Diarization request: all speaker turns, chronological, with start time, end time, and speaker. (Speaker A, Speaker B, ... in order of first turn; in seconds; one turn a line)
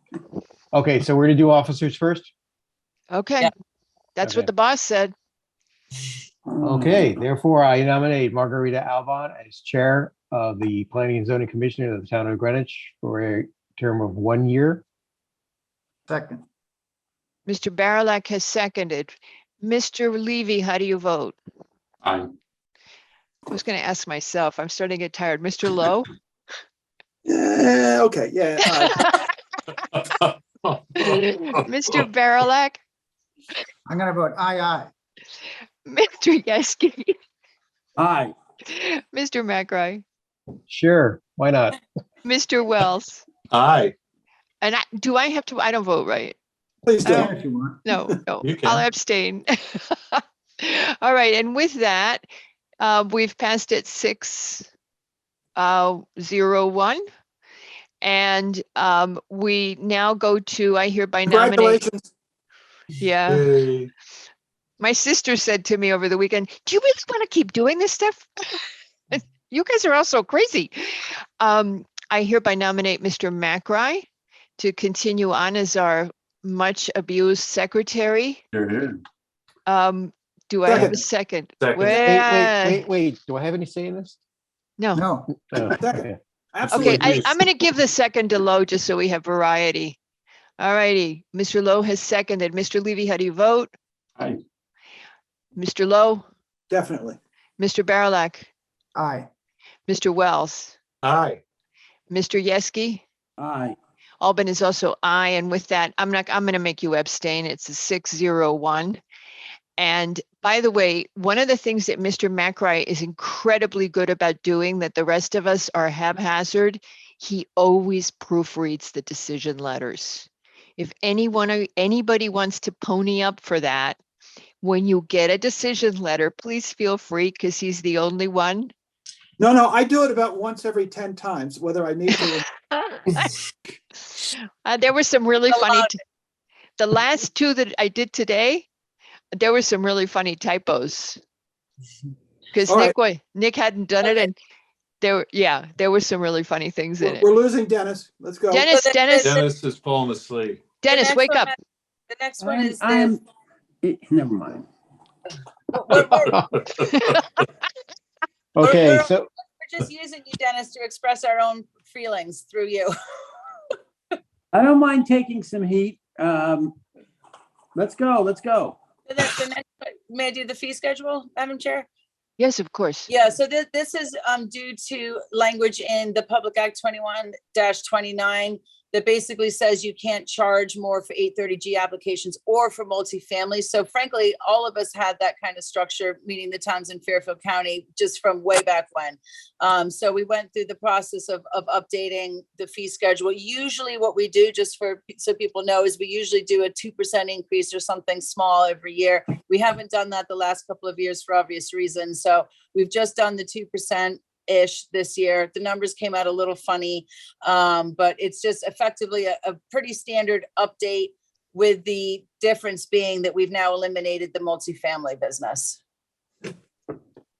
Speaker A: 0.7-2.3
Speaker B: 3.1-3.5
Speaker B: 4.2-5.1
Speaker A: 4.2-4.5
Speaker C: 6.5-7.1
Speaker A: 6.6-14.8
Speaker D: 16.1-16.4
Speaker B: 17.5-21.3
Speaker E: 22.0-22.3
Speaker B: 23.5-26.1
Speaker F: 27.2-29.2
Speaker B: 28.9-29.2
Speaker E: 29.9-31.6
Speaker B: 31.0-32.8
Speaker D: 33.9-34.9
Speaker B: 35.9-37.1
Speaker C: 38.0-38.3
Speaker B: 38.7-40.0
Speaker A: 40.7-41.8
Speaker B: 42.2-43.2
Speaker E: 43.5-43.9
Speaker B: 44.6-46.4
Speaker F: 46.9-47.3
Speaker D: 47.0-47.8
Speaker B: 47.9-52.2
Speaker E: 48.4-48.8
Speaker B: 52.8-54.7
Speaker B: 55.5-57.0
Speaker B: 58.0-61.8
Speaker F: 61.2-62.1
Speaker B: 63.0-63.5
Speaker E: 63.2-63.9
Speaker B: 64.8-68.6
Speaker B: 69.1-74.0
Speaker B: 74.6-78.4
Speaker B: 79.7-82.8
Speaker F: 80.6-81.0
Speaker E: 81.6-82.1
Speaker A: 81.9-84.2
Speaker B: 84.8-85.0
Speaker D: 84.9-85.8
Speaker A: 85.5-86.2
Speaker F: 85.8-87.4
Speaker B: 86.7-90.0
Speaker B: 90.6-93.7
Speaker B: 95.5-96.2
Speaker F: 96.7-97.2
Speaker B: 97.6-98.5
Speaker D: 99.0-99.3
Speaker B: 99.9-100.7
Speaker E: 101.0-101.4
Speaker B: 102.1-103.0
Speaker C: 103.4-103.8
Speaker B: 104.2-109.0
Speaker B: 109.8-124.0
Speaker B: 124.6-128.7
Speaker F: 129.4-132.4
Speaker B: 132.2-133.3
Speaker B: 134.1-136.0
Speaker G: 135.5-135.9
Speaker B: 136.8-138.7
Speaker B: 139.3-141.2
Speaker B: 142.5-144.3
Speaker F: 142.7-142.9
Speaker B: 145.0-147.2
Speaker F: 147.0-148.7
Speaker B: 148.5-149.3
Speaker G: 148.7-149.5
Speaker E: 149.2-150.8
Speaker B: 150.8-151.5
Speaker G: 150.9-151.5
Speaker G: 152.1-153.2
Speaker C: 152.4-153.2
Speaker C: 153.8-154.7
Speaker G: 155.7-156.4
Speaker E: 156.6-157.4
Speaker A: 158.6-159.3
Speaker G: 158.6-162.9
Speaker C: 164.5-166.8
Speaker C: 167.7-168.8
Speaker G: 169.1-171.9
Speaker B: 172.4-173.1
Speaker G: 173.1-215.8